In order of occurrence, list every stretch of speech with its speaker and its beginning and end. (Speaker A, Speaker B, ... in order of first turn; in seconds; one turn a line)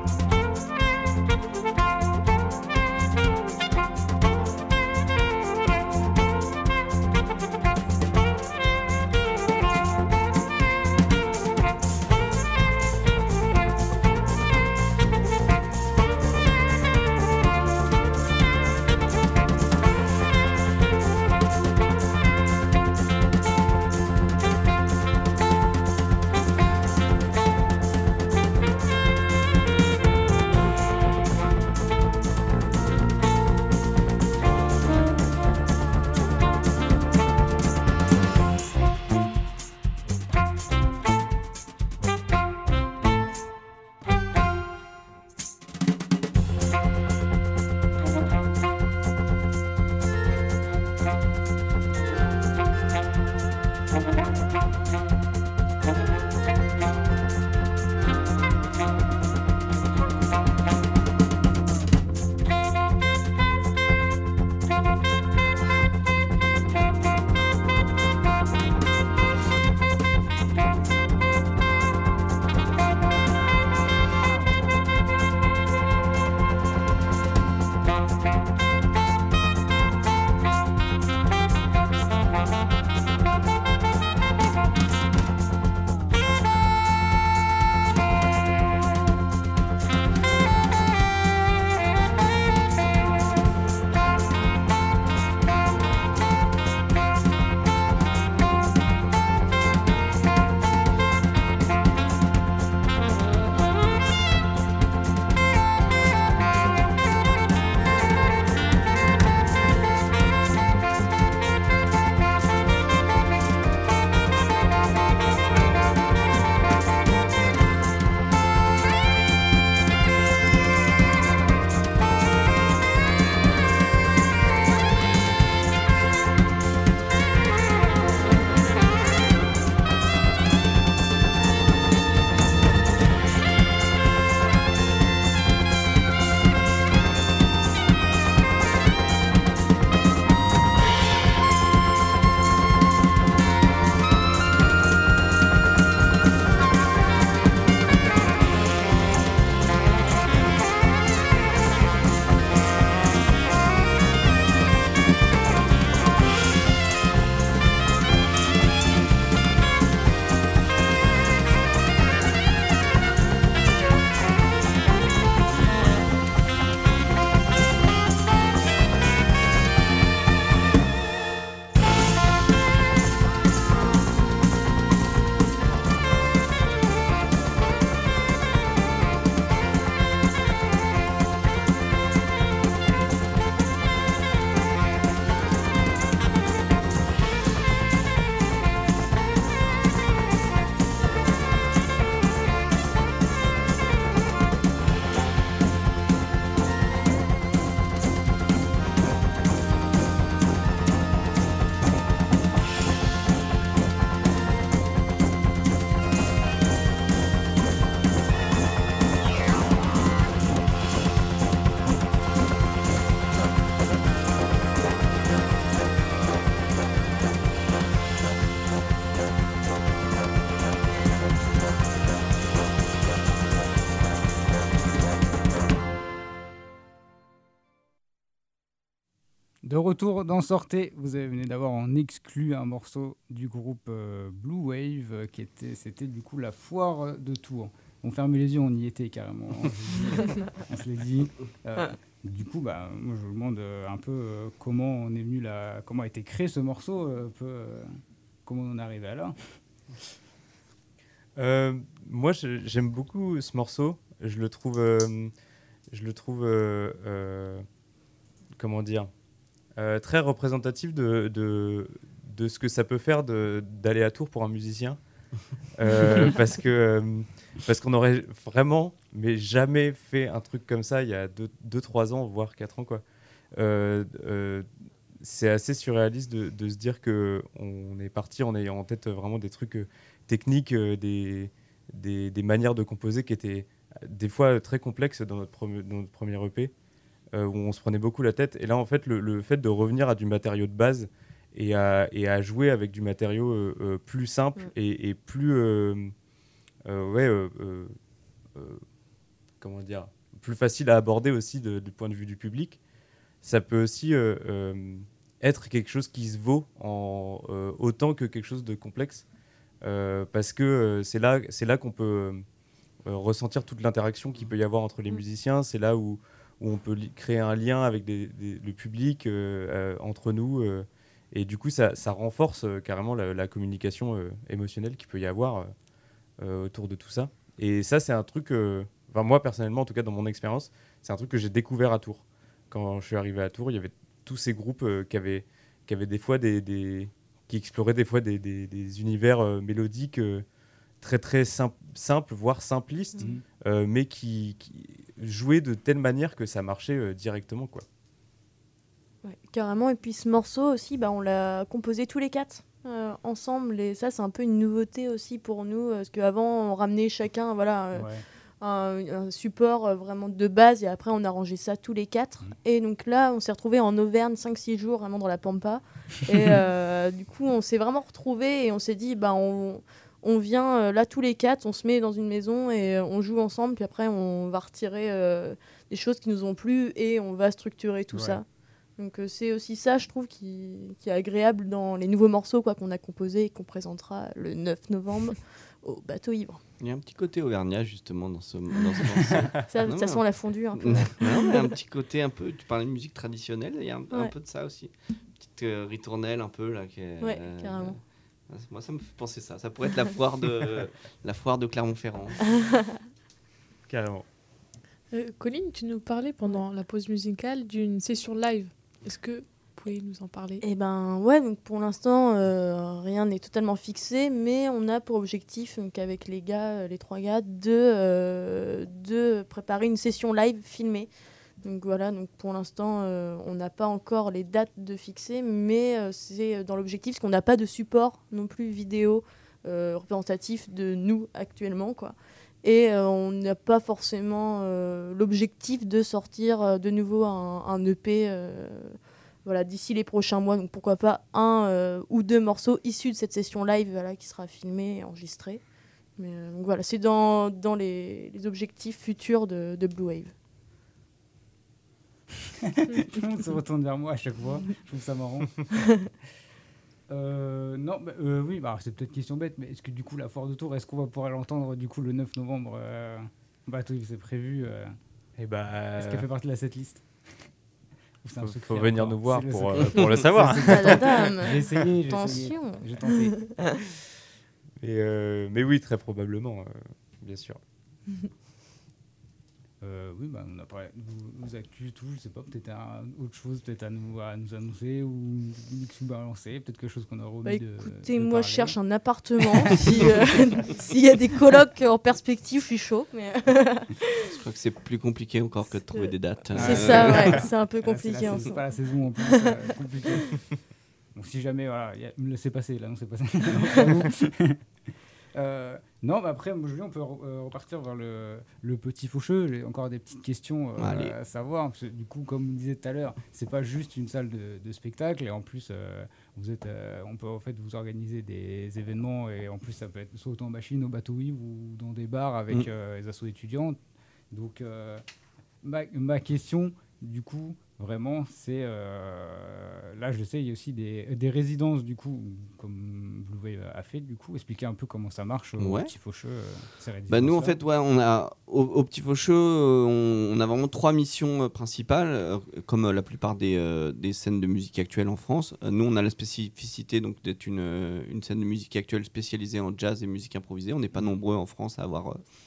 Speaker A: 229.6-249.3
Speaker B: 251.3-255.3
Speaker B: 255.9-257.6
Speaker B: 258.6-259.1
Speaker B: 259.8-265.0
Speaker B: 265.8-273.0
Speaker B: 273.5-274.7
Speaker B: 275.2-286.7
Speaker B: 287.3-296.1
Speaker B: 296.9-297.9
Speaker B: 298.5-298.8
Speaker B: 299.6-302.8
Speaker B: 303.4-309.2
Speaker B: 309.8-312.4
Speaker B: 313.0-325.7
Speaker B: 326.4-340.4
Speaker B: 341.0-347.8
Speaker C: 349.2-358.1
Speaker A: 357.9-358.2
Speaker C: 358.6-378.4
Speaker A: 378.1-378.4
Speaker C: 379.0-386.6
Speaker D: 386.8-390.2
Speaker C: 389.7-391.7
Speaker D: 390.7-402.5
Speaker C: 397.2-398.0
Speaker C: 402.5-403.0
Speaker B: 403.9-404.2
Speaker E: 405.1-410.6
Speaker C: 410.6-421.1
Speaker C: 421.6-445.6
Speaker C: 446.2-450.3
Speaker A: 452.6-455.5
Speaker A: 457.1-464.9
Speaker B: 465.4-466.2
Speaker A: 466.0-467.1
Speaker A: 468.2-473.4
Speaker B: 468.4-471.3
Speaker C: 470.6-473.7
Speaker B: 474.8-477.6
Speaker A: 479.8-488.7
Speaker C: 487.4-494.2
Speaker D: 494.2-497.5
Speaker C: 495.9-498.7
Speaker A: 496.5-500.4
Speaker C: 499.2-499.6
Speaker A: 501.1-504.6
Speaker A: 505.3-523.8
Speaker D: 510.8-511.1
Speaker A: 524.3-525.0
Speaker A: 525.6-537.6
Speaker D: 535.6-535.9
Speaker D: 537.1-552.2